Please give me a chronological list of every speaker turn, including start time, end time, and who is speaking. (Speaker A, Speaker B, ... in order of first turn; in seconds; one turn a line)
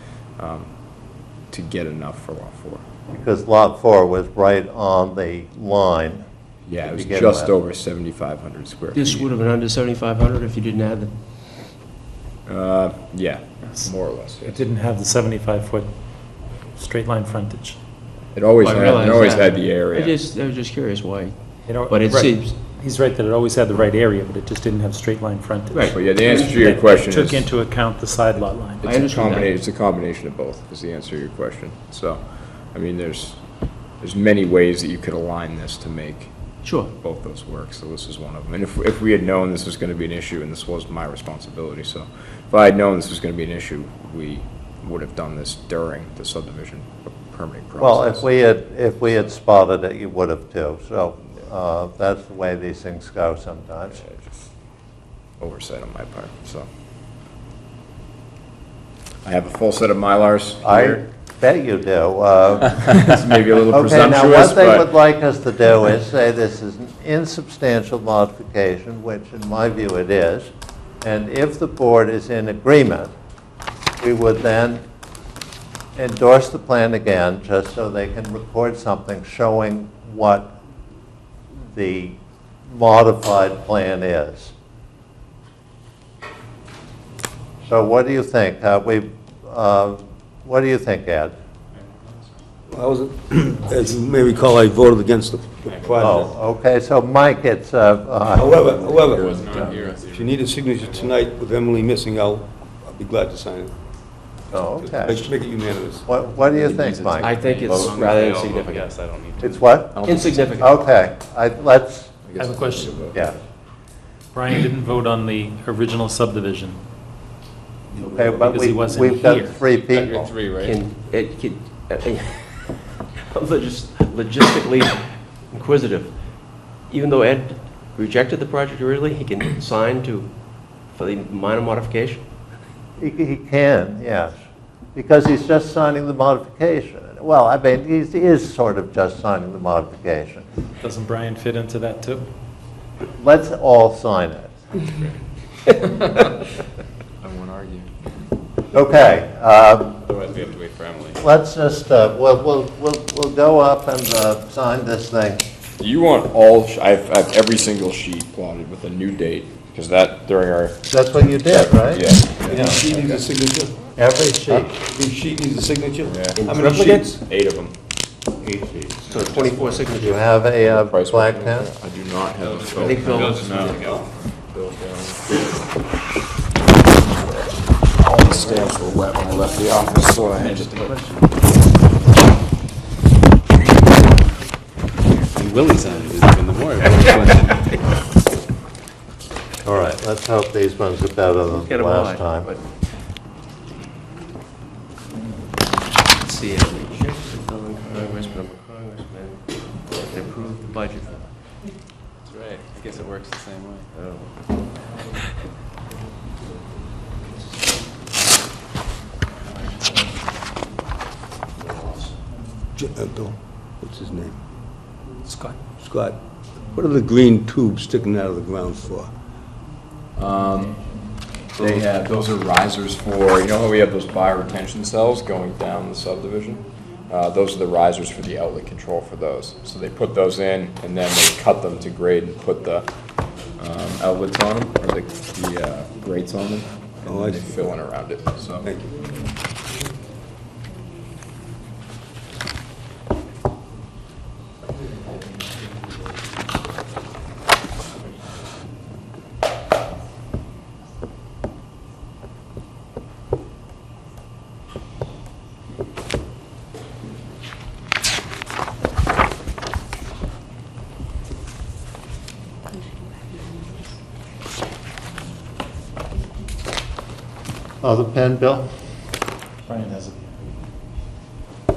Speaker A: 0.4-0.7
Speaker A: 1.5-2.8
Speaker B: 3.1-6.2
Speaker A: 6.7-9.3
Speaker B: 6.8-7.5
Speaker C: 8.9-11.1
Speaker A: 12.4-14.6
Speaker D: 13.6-17.8
Speaker A: 18.3-20.2
Speaker C: 18.6-22.6
Speaker D: 21.7-26.0
Speaker C: 25.7-26.9
Speaker A: 25.9-27.5
Speaker D: 26.7-28.8
Speaker C: 28.8-29.5
Speaker A: 28.8-33.4
Speaker A: 34.0-48.2
Speaker C: 36.6-36.9
Speaker B: 47.8-54.0
Speaker A: 55.4-56.7
Speaker A: 59.2-61.0
Speaker B: 60.6-63.1
Speaker A: 62.8-64.9
Speaker B: 63.7-70.5
Speaker B: 71.0-73.1
Speaker B: 74.0-74.8
Speaker B: 76.0-80.6
Speaker B: 81.7-84.5
Speaker B: 87.6-91.3
Speaker E: 92.7-96.3
Speaker A: 95.7-96.2
Speaker B: 96.0-98.9
Speaker E: 98.3-99.4
Speaker A: 98.6-100.0
Speaker F: 99.1-101.2
Speaker E: 100.1-103.8
Speaker B: 104.5-105.3
Speaker E: 104.8-106.1
Speaker B: 106.0-107.3
Speaker A: 106.7-108.2
Speaker C: 107.2-108.9
Speaker F: 107.4-109.7
Speaker B: 109.4-110.0
Speaker A: 109.9-110.7
Speaker C: 110.1-110.7
Speaker B: 110.6-112.2
Speaker A: 112.2-113.3
Speaker D: 112.3-113.1
Speaker B: 113.1-113.4
Speaker D: 114.3-116.8
Speaker B: 118.0-120.3
Speaker E: 118.2-118.4
Speaker D: 118.5-119.6
Speaker A: 119.9-120.8
Speaker C: 120.6-125.0
Speaker C: 125.5-126.1
Speaker C: 126.9-130.3
Speaker C: 130.9-132.2
Speaker B: 133.0-134.4
Speaker B: 134.9-140.4
Speaker D: 140.8-142.3
Speaker B: 143.2-144.5
Speaker A: 147.2-147.9
Speaker B: 148.7-150.0
Speaker F: 150.1-151.2
Speaker A: 150.5-151.2
Speaker B: 151.2-155.4
Speaker A: 155.8-163.2
Speaker B: 160.9-162.8
Speaker E: 162.5-163.9
Speaker B: 164.0-164.8
Speaker E: 164.8-167.2
Speaker A: 166.0-167.8
Speaker C: 166.3-167.1
Speaker B: 168.4-169.0
Speaker C: 169.1-170.2
Speaker F: 169.1-169.4
Speaker B: 170.0-171.7
Speaker A: 170.6-175.7
Speaker F: 172.4-174.1
Speaker C: 172.8-173.5
Speaker A: 178.0-181.2
Speaker C: 180.8-181.1
Speaker F: 185.4-187.7
Speaker C: 186.8-187.6
Speaker B: 189.6-192.5
Speaker C: 191.5-192.7
Speaker C: 196.2-201.2
Speaker F: 202.3-203.9
Speaker C: 204.0-204.2
Speaker E: 212.7-214.4
Speaker D: 215.3-215.5
Speaker E: 215.7-216.2
Speaker E: 216.8-219.1
Speaker A: 220.2-232.9
Speaker A: 233.6-238.7
Speaker E: 237.1-237.7
Speaker E: 238.6-239.0
Speaker B: 267.8-268.7
Speaker D: 269.6-270.3